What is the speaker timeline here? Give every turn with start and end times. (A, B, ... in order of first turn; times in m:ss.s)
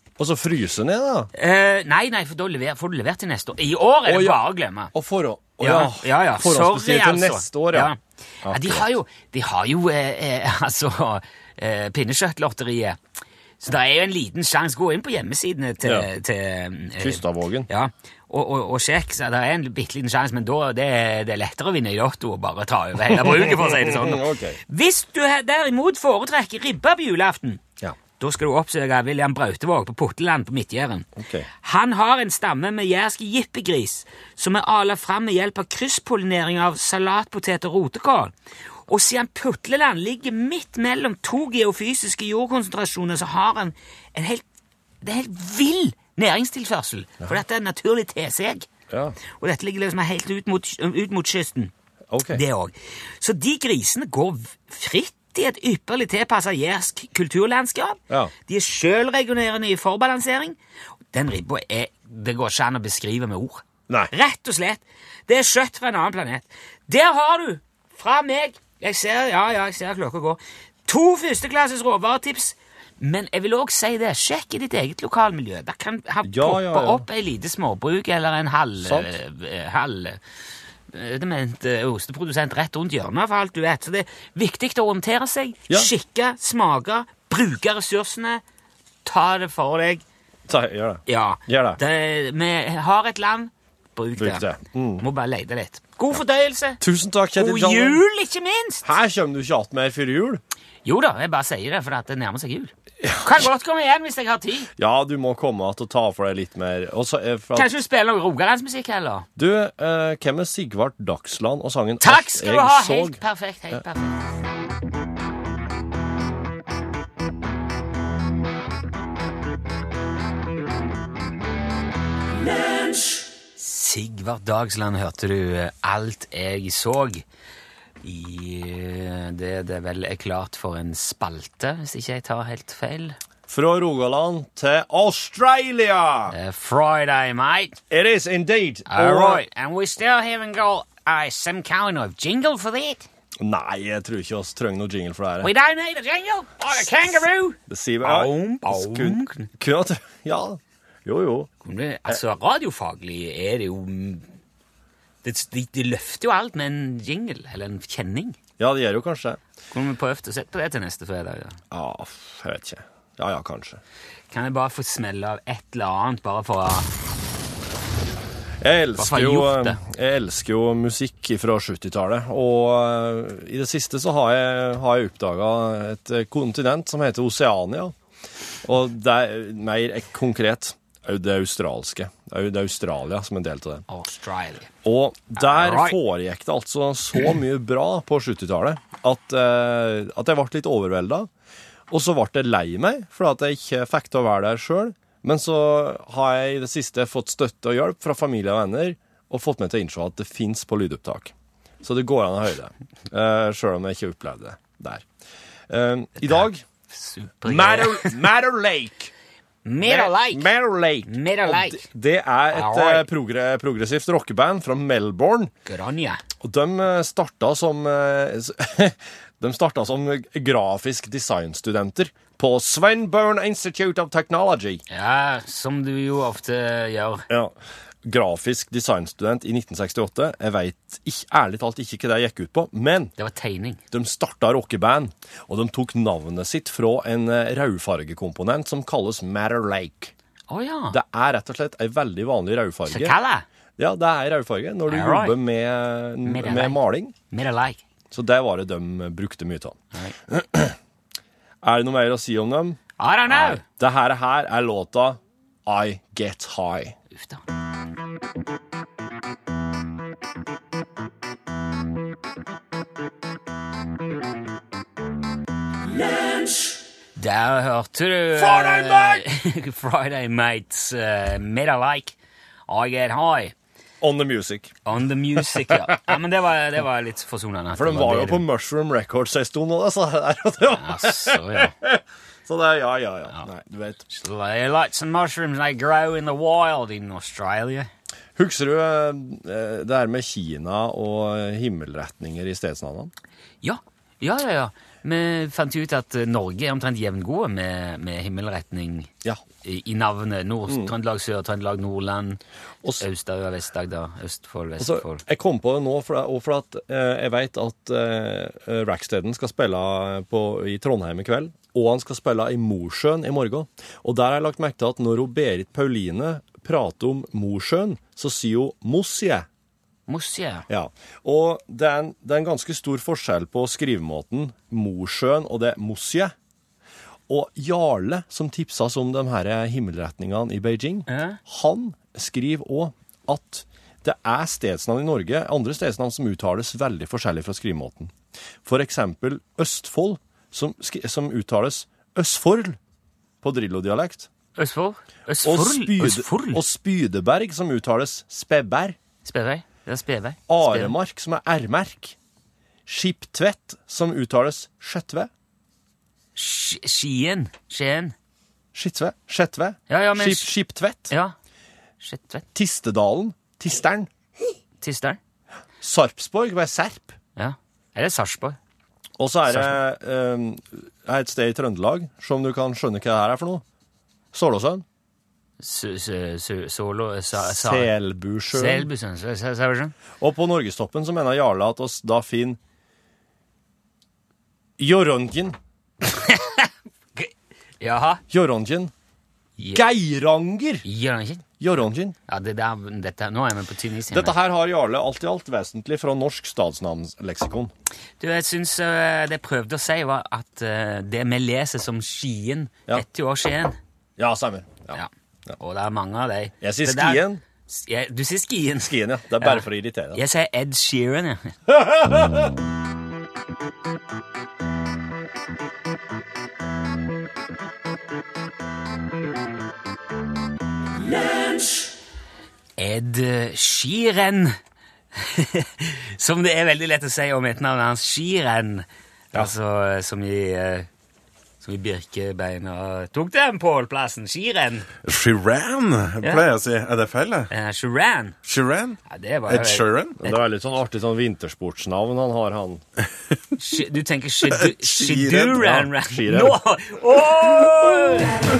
0:00.2-0:01.3 A
0:01.4-0:04.9 B
0:04.1-0:04.4 A
0:04.9-0:07.9 A
0:05.6-0:13.0 B
0:08.4-0:08.9 A
0:13.6-0:27.6 B
0:15.8-0:16.1 A
0:17.0-0:17.7 A
0:23.1-0:24.6 A
0:28.2-0:31.1 B
0:31.2-0:31.5 A
0:31.6-0:38.3 B
0:38.9-0:44.4 B
0:45.0-0:48.7 B
0:48.9-0:49.2 A
0:49.4-0:51.7 B
0:52.1-0:52.4 A
0:52.3-1:00.6 B
1:01.1-1:20.2 B
1:16.2-1:17.1 A
1:18.8-1:19.1 A
1:20.9-1:28.4 B
1:29.0-1:30.0 B
1:30.5-1:31.8 A
1:31.1-1:34.5 B
1:34.2-1:35.0 A
1:35.0-1:36.8 B
1:36.8-1:38.0 A
1:37.4-1:38.8 B
1:38.8-1:40.4 A
1:40.8-1:44.7 B
1:43.0-1:43.5 A
1:44.8-1:47.7 A
1:47.6-1:49.3 B
1:49.4-1:53.2 A
1:52.0-1:54.2 B
2:03.6-2:07.2 B
2:08.0-2:13.2 B
2:13.5-2:16.4 A
2:16.3-2:17.8 B
2:17.9-2:19.4 A
2:18.9-2:23.1 B
2:23.4-2:25.5 A
2:25.4-2:29.5 B
2:27.7-2:31.5 A
2:31.6-2:34.3 B
2:35.2-2:38.4 B
2:38.6-2:39.4 A
2:39.7-2:41.6 B
2:41.7-2:43.8 A
2:44.3-2:46.9 B
2:48.6-2:58.0 A
2:49.0-2:49.8 B
2:58.6-3:03.8 A
3:03.9-3:04.7 B
3:04.8-3:11.3 A
3:05.4-3:06.0 B
3:11.9-3:25.1 A
3:25.7-3:26.6 A
3:26.2-3:28.2 B
3:27.4-3:29.1 A
3:29.6-3:30.5 B
3:29.8-3:35.5 A
3:31.1-3:31.9 B
3:32.5-3:33.1 B
3:35.7-3:36.2 B
3:36.4-3:44.8 A
3:44.9-3:47.3 B
3:47.3-3:53.1 A
3:53.2-3:53.8 B
3:53.9-4:00.1 A
4:00.5-4:01.0 B
4:00.9-4:03.2 A
4:02.9-4:03.5 B
4:03.8-4:07.1 A
4:04.9-4:05.4 B
4:06.2-4:06.8 B
4:07.3-4:07.8 B
4:08.1-4:09.8 A
4:10.3-4:10.8 A
4:11.6-4:17.0 A
4:13.0-4:13.6 B
4:17.1-4:17.4 B
4:27.2-4:32.2 B
4:28.3-4:29.2 A
4:32.7-4:33.5 B
4:34.0-4:34.8 A
4:34.8-4:38.4 B
4:35.4-4:36.0 A
4:37.7-4:44.1 A
4:40.7-4:41.7 B
4:44.1-4:47.9 B
4:48.4-4:53.1 A
4:53.6-4:59.1 B
4:59.6-5:02.4 B
5:00.7-5:00.9 A
5:03.0-5:05.2 B
5:04.8-5:19.5 A
5:20.1-5:20.7 B
5:20.7-5:26.3 A
5:27.3-5:38.1 A
5:31.1-5:31.4 B
5:38.6-5:42.8 A
5:43.4-5:44.3 A
5:44.6-5:46.6 B
5:45.4-5:49.0 A
5:49.2-5:51.0 B
5:50.5-5:52.2 A
5:52.9-5:55.3 A
5:56.4-5:58.2 B
5:58.7-6:01.1 A
5:59.9-6:00.5 B
6:01.1-6:01.4 B
6:02.0-6:02.4 B
6:02.6-6:04.1 A
6:04.8-6:05.2 B
6:05.8-6:07.2 A
6:07.4-6:08.6 B
6:09.2-6:13.6 A
6:09.5-6:09.8 B
6:14.3-6:14.8 A
6:15.6-6:17.9 B
6:17.4-6:18.9 A
6:18.5-6:19.9 B
6:20.2-6:22.6 A
6:24.8-6:25.6 A
6:26.1-6:28.2 B
6:28.3-6:28.9 A
6:29.7-6:30.8 A
6:30.8-6:31.5 B
6:31.6-6:32.2 A
6:32.3-6:34.4 B
6:34.1-6:37.7 A
6:38.2-6:43.8 B
6:44.2-6:45.6 A
6:44.9-6:51.6 B
6:46.6-6:47.4 A
6:48.8-6:50.2 A
6:51.7-6:52.5 A
7:02.8-7:04.6 B
7:05.2-7:10.9 B
7:11.6-7:14.9 B
7:15.0-7:17.5 C
7:17.5-7:18.4 B
7:18.4-7:20.2 C
7:19.1-7:20.4 B
7:20.2-7:22.8 A
7:23.6-7:28.3 B
7:24.8-7:26.6 A
7:25.1-7:25.5 C